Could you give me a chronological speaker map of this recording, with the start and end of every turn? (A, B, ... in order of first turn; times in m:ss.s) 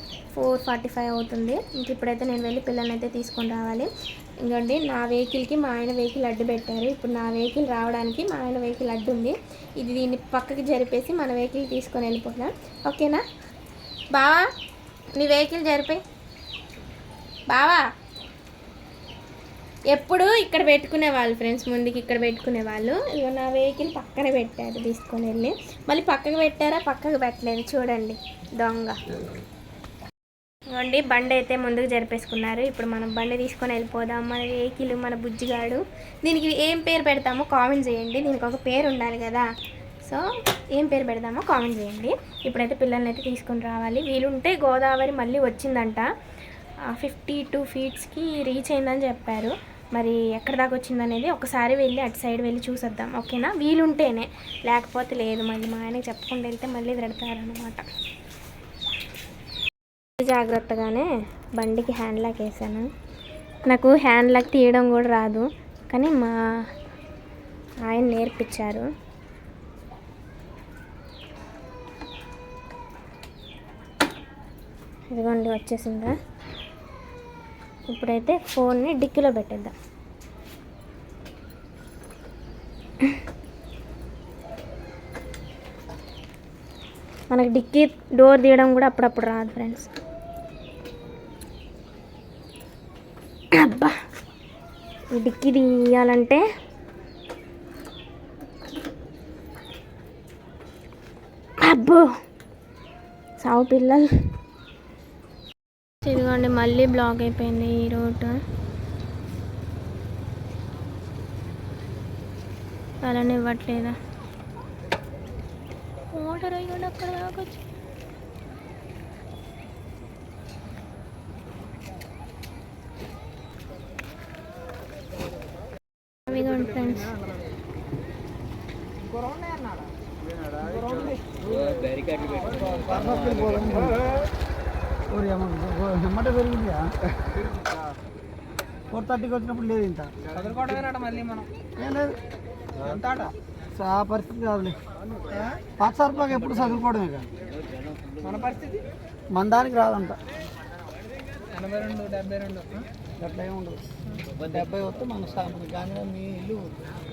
0:00.3-0:03.9 A
0:04.4-0:13.2 A
0:14.1-0:14.4 A
0:15.1-0:16.0 A
0:17.5-0:17.8 A
0:19.9-0:29.0 A
0:30.7-0:39.4 A
0:40.7-0:46.1 A
0:46.9-0:57.8 A
1:00.2-1:02.9 A
1:03.7-1:06.3 A
1:07.8-1:08.9 A
1:15.1-1:16.2 A
1:17.9-1:19.7 A
1:27.3-1:29.9 A
1:33.5-1:33.9 A
1:35.1-1:36.4 A
1:41.6-1:42.1 A
1:43.4-1:44.1 A
1:46.0-1:48.4 A
1:53.0-1:54.0 A
1:56.1-1:57.6 A
2:06.3-2:07.1 A
2:09.0-2:09.9 B
2:10.5-2:12.1 B
2:12.3-2:14.0 C
2:15.1-2:16.9 C
2:18.9-2:20.1 C
2:20.4-2:21.5 B
2:21.8-2:22.2 C
2:22.8-2:23.3 B
2:23.7-2:24.8 C
2:25.7-2:27.3 C
2:28.2-2:28.8 B
2:29.3-2:30.2 C
2:31.5-2:32.9 B
2:33.2-2:33.8 C
2:34.4-2:36.7 C